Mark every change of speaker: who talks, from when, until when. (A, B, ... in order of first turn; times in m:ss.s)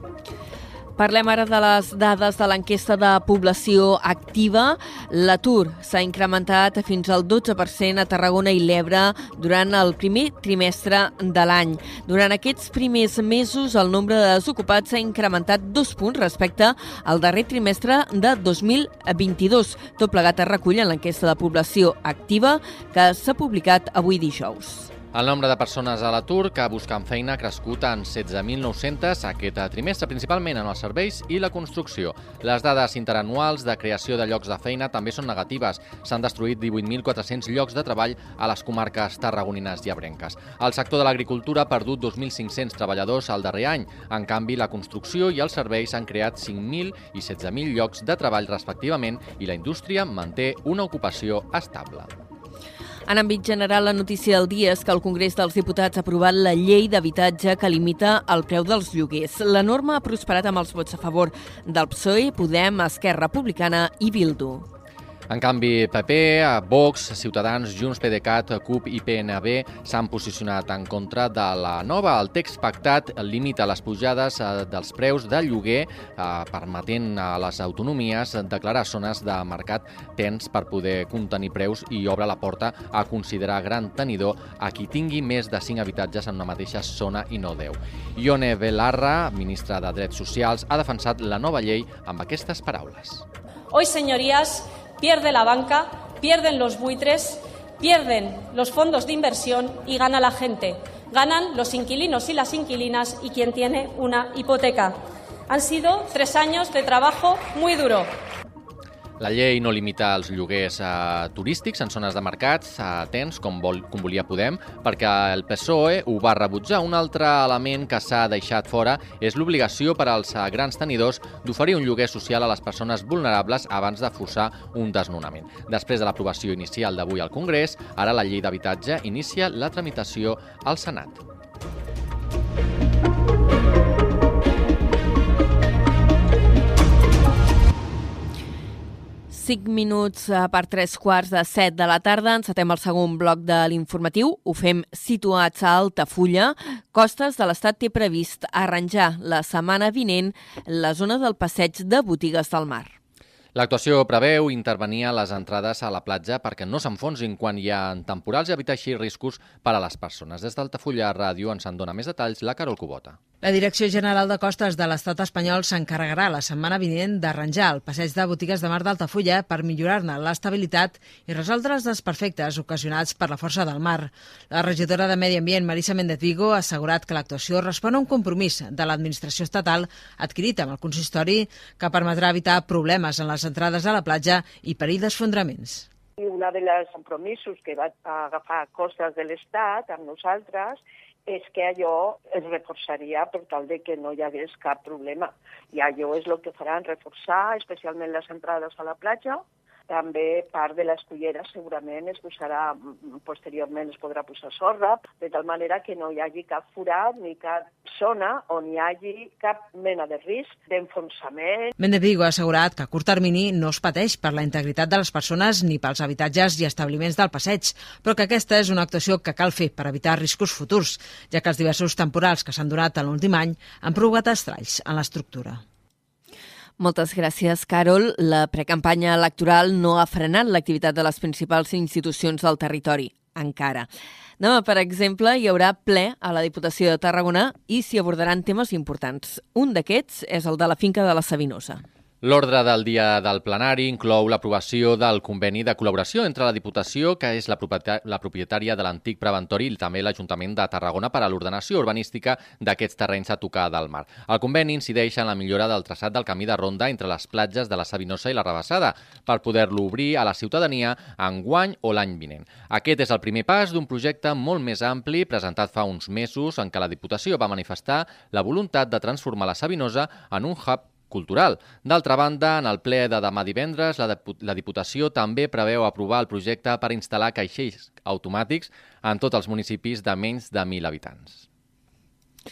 0:01.0-0:24.9 A
0:25.1-0:52.1 B
0:53.1-1:04.7 A
1:05.3-1:33.2 B
1:33.7-1:45.0 C
1:45.5-1:48.1 C
1:49.2-2:11.2 B
2:19.3-2:32.9 A
2:33.6-2:43.2 B
2:43.4-3:05.9 D
3:06.2-3:31.7 E
3:31.8-3:45.6 D
3:46.8-3:53.9 A
3:54.4-4:01.8 A
4:02.2-4:41.4 B